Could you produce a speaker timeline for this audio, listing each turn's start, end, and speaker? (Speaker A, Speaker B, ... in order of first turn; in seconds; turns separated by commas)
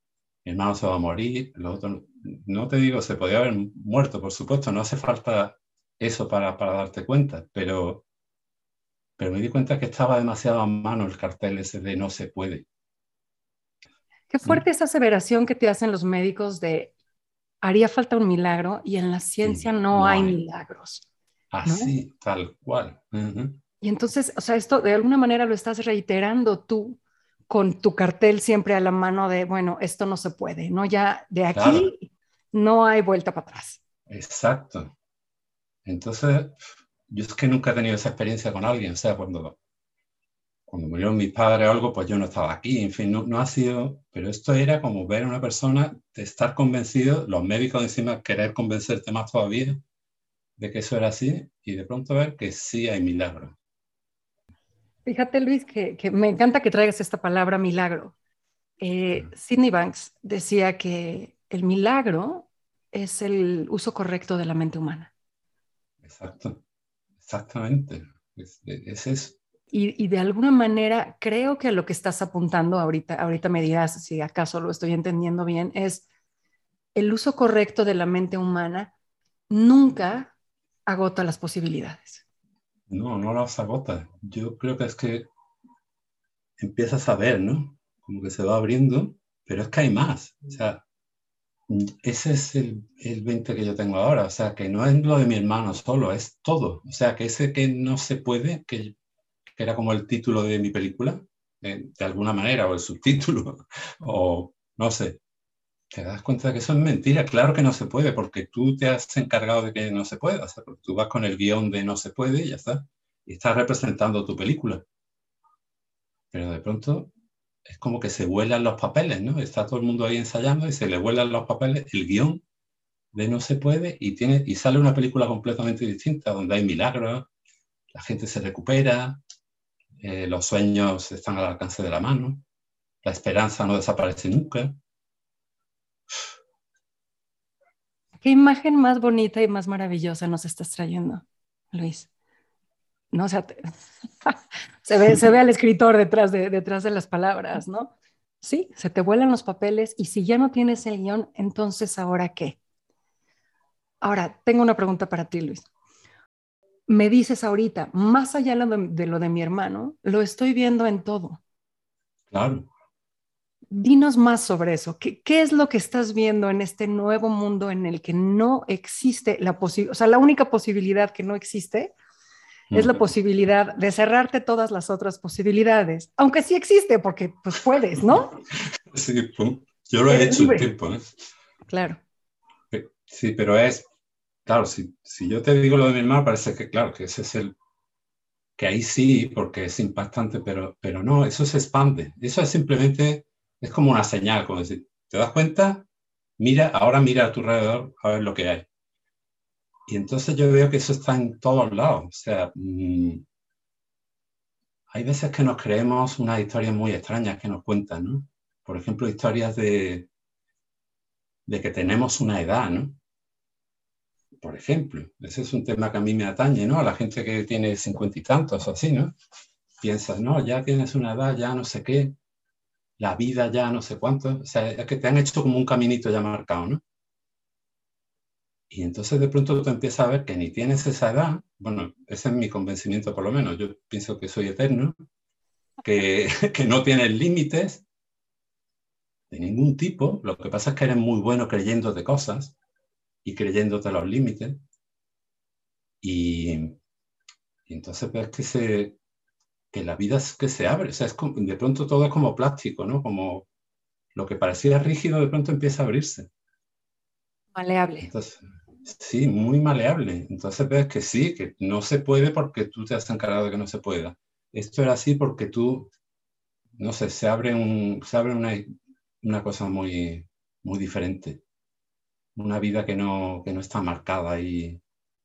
Speaker A: 0.4-8.0, Speaker A: 9.2-12.7, Speaker B: 14.3-16.9, Speaker B: 17.6-21.1, Speaker A: 19.4-20.4, Speaker A: 21.5-23.6, Speaker B: 21.6-21.9, Speaker B: 23.8-33.8, Speaker A: 31.5-31.9, Speaker A: 34.1-34.9, Speaker A: 35.8-36.6, Speaker A: 37.1-39.5, Speaker A: 40.7-49.8, Speaker A: 50.6-53.6, Speaker B: 55.0-58.1, Speaker B: 58.8-65.1, Speaker A: 66.0-66.6, Speaker A: 67.2-69.4, Speaker B: 69.7-76.0, Speaker B: 76.9-78.9, Speaker B: 79.5-80.3, Speaker B: 80.9-82.2, Speaker A: 82.9-85.3, Speaker A: 86.6-90.8, Speaker A: 91.7-98.9, Speaker A: 99.5-105.2, Speaker A: 105.9-114.8, Speaker A: 116.3-117.1, Speaker A: 117.7-122.4, Speaker A: 123.1-127.3, Speaker A: 127.9-129.2, Speaker A: 130.0-132.4, Speaker A: 133.0-134.7, Speaker B: 138.2-142.1, Speaker B: 143.1-143.7, Speaker B: 144.2-152.6, Speaker B: 154.0-155.7, Speaker B: 156.9-161.4, Speaker A: 162.3-162.7, Speaker B: 163.7-171.9, Speaker A: 172.7-173.0, Speaker B: 172.7-178.3, Speaker A: 178.9-181.1, Speaker B: 180.1-180.7, Speaker B: 181.7-182.0, Speaker A: 182.7-183.8, Speaker A: 184.4-187.5, Speaker A: 188.6-195.9, Speaker A: 196.4-198.7, Speaker A: 199.9-203.2, Speaker A: 204.9-210.1, Speaker A: 211.5-213.0, Speaker A: 214.4-219.1, Speaker A: 219.8-222.1, Speaker A: 223.0-226.8, Speaker A: 228.7-234.9, Speaker A: 235.8-237.8, Speaker A: 239.3-242.6, Speaker A: 243.2-244.6, Speaker A: 246.0-246.8, Speaker A: 247.7-249.0, Speaker A: 249.7-253.5, Speaker A: 254.1-256.3, Speaker B: 257.5-258.1, Speaker A: 258.0-265.9, Speaker A: 266.8-268.6, Speaker A: 269.2-271.4, Speaker A: 272.4-274.8